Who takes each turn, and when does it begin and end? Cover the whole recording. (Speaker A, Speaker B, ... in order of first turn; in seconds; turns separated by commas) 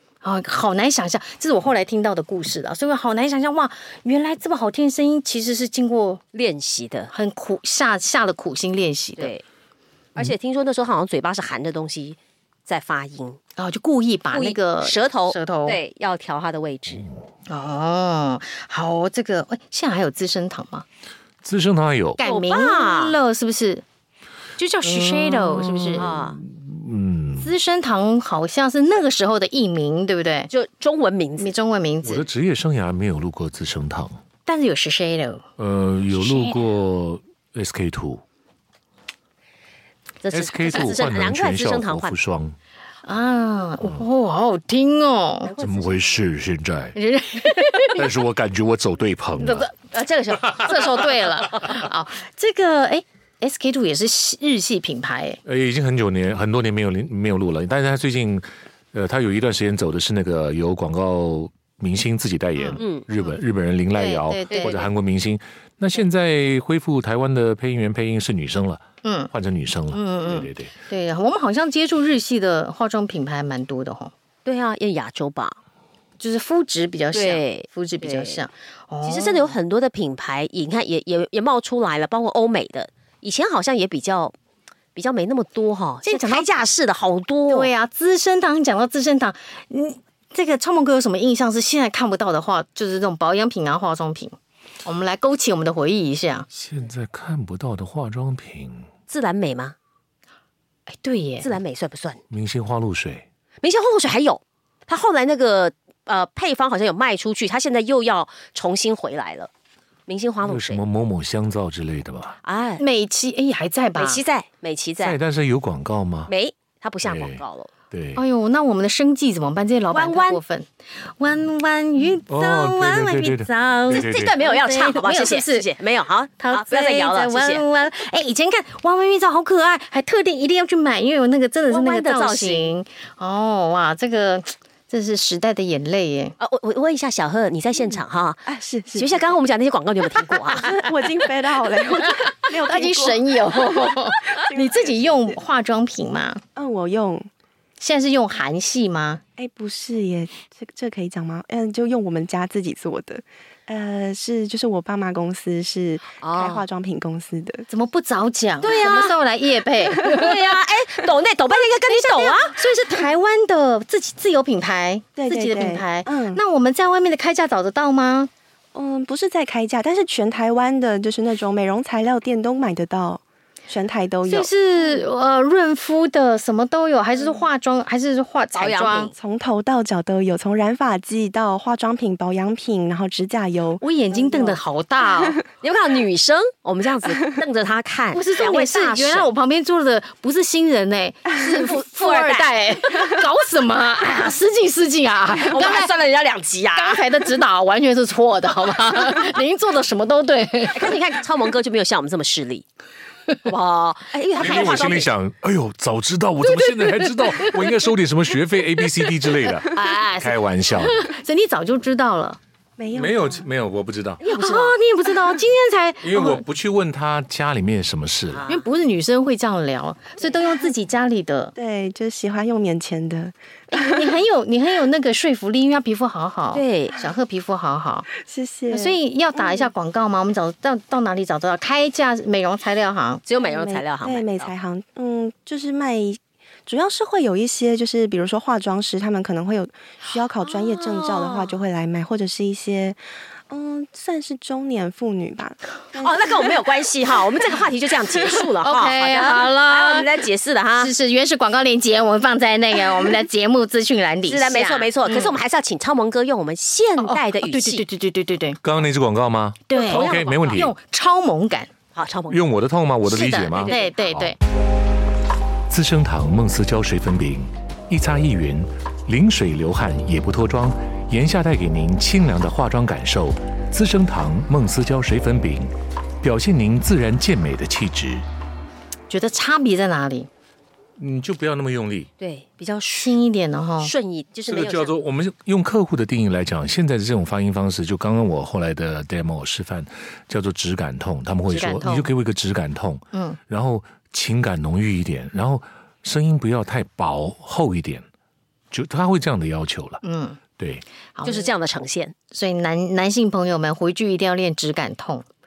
Speaker A: 0.2-6.2, Speaker B: 6.3-7.1, Speaker A: 7.1-9.3, Speaker B: 9.2-9.4, Speaker B: 10.2-13.4, Speaker A: 13.6-15.8, Speaker B: 14.3-17.1, Speaker A: 17.5-20.8, Speaker C: 21.4-22.2, Speaker A: 22.2-23.8, Speaker B: 22.2-23.2, Speaker A: 24.6-26.1, Speaker C: 25.2-27.5, Speaker B: 25.9-26.4, Speaker A: 27.4-30.5, Speaker B: 30.5-31.5, Speaker A: 31.4-32.3, Speaker C: 32.0-34.2, Speaker A: 34.5-35.4, Speaker C: 35.6-38.2, Speaker B: 40.2-42.1, Speaker C: 40.3-42.5, Speaker A: 43.0-45.5, Speaker B: 45.5-46.2, Speaker C: 45.6-47.0, Speaker A: 46.9-48.0, Speaker C: 47.9-49.7, Speaker A: 49.4-49.7, Speaker B: 49.9-51.6, Speaker A: 50.6-55.4, Speaker C: 55.4-70.7, Speaker B: 62.8-63.0, Speaker A: 63.9-64.8, Speaker B: 64.5-64.8, Speaker A: 69.0-69.3, Speaker A: 69.9-74.1, Speaker B: 74.4-75.6, Speaker A: 76.2-79.5, Speaker B: 77.1-78.4, Speaker B: 79.0-84.3, Speaker B: 84.9-87.7, Speaker A: 86.0-86.5, Speaker A: 87.5-96.5, Speaker C: 96.5-98.9, Speaker B: 99.1-99.8, Speaker A: 100.9-101.5, Speaker B: 101.4-102.2, Speaker C: 102.3-103.2, Speaker B: 103.6-109.5, Speaker B: 110.1-110.8, Speaker C: 110.4-112.4, Speaker B: 112.4-112.8, Speaker A: 112.8-114.2, Speaker B: 114.0-115.2, Speaker C: 115.0-116.3, Speaker B: 116.3-117.7, Speaker C: 117.0-118.2, Speaker A: 118.1-120.7, Speaker B: 119.9-120.4, Speaker A: 121.2-125.7, Speaker C: 122.3-124.3, Speaker B: 123.9-127.6, Speaker A: 126.4-136.3, Speaker B: 131.7-132.7, Speaker B: 136.4-141.1, Speaker D: 138.4-139.2, Speaker D: 140.5-143.3, Speaker A: 142.1-146.4, Speaker D: 144.3-145.4, Speaker D: 146.6-147.3, Speaker A: 147.8-149.2, Speaker D: 149.4-157.7, Speaker B: 156.2-156.6, Speaker A: 157.7-160.3, Speaker B: 158.6-159.2, Speaker B: 160.0-162.5, Speaker A: 161.8-168.3, Speaker D: 165.2-166.4, Speaker D: 168.7-174.5, Speaker A: 174.2-179.1, Speaker B: 178.5-179.1, Speaker D: 179.1-184.6, Speaker A: 183.8-185.4, Speaker B: 185.6-189.3, Speaker A: 188.1-195.9, Speaker B: 191.3-192.5, Speaker B: 195.4-197.0, Speaker A: 196.7-201.0, Speaker B: 200.7-202.6, Speaker B: 203.4-205.1, Speaker C: 204.4-211.0, Speaker A: 204.4-204.8, Speaker A: 206.4-207.6, Speaker A: 209.0-212.4, Speaker D: 212.8-213.5, Speaker C: 212.9-214.2, Speaker B: 214.2-214.8, Speaker A: 214.3-216.4, Speaker C: 216.0-218.4, Speaker B: 218.3-218.6, Speaker A: 218.5-221.5, Speaker D: 221.6-224.1, Speaker A: 223.7-228.1, Speaker B: 226.5-227.0, Speaker D: 228.1-229.7, Speaker A: 228.7-233.2, Speaker B: 233.2-234.5, Speaker D: 233.4-243.0, Speaker B: 240.5-241.6, Speaker D: 243.5-246.4, Speaker B: 245.9-250.9, Speaker A: 248.6-250.1, Speaker A: 250.8-255.3, Speaker B: 254.2-257.8, Speaker A: 257.0-258.6, Speaker C: 258.6-260.7, Speaker A: 259.7-261.7, Speaker B: 259.8-260.6, Speaker B: 261.9-262.4, Speaker C: 262.3-264.3, Speaker A: 263.1-264.4, Speaker B: 263.6-263.9, Speaker C: 265.7-278.2, Speaker A: 279.1-280.3, Speaker C: 281.0-282.1, Speaker B: 282.2-283.2, Speaker A: 283.0-283.9, Speaker B: 283.8-284.9, Speaker C: 284.5-298.1, Speaker A: 291.5-292.1, Speaker A: 293.1-293.4, Speaker C: 298.7-300.0, Speaker A: 300.0-300.4, Speaker C: 300.6-300.8, Speaker A: 301.1-301.5, Speaker B: 301.2-302.1, Speaker A: 302.3-305.2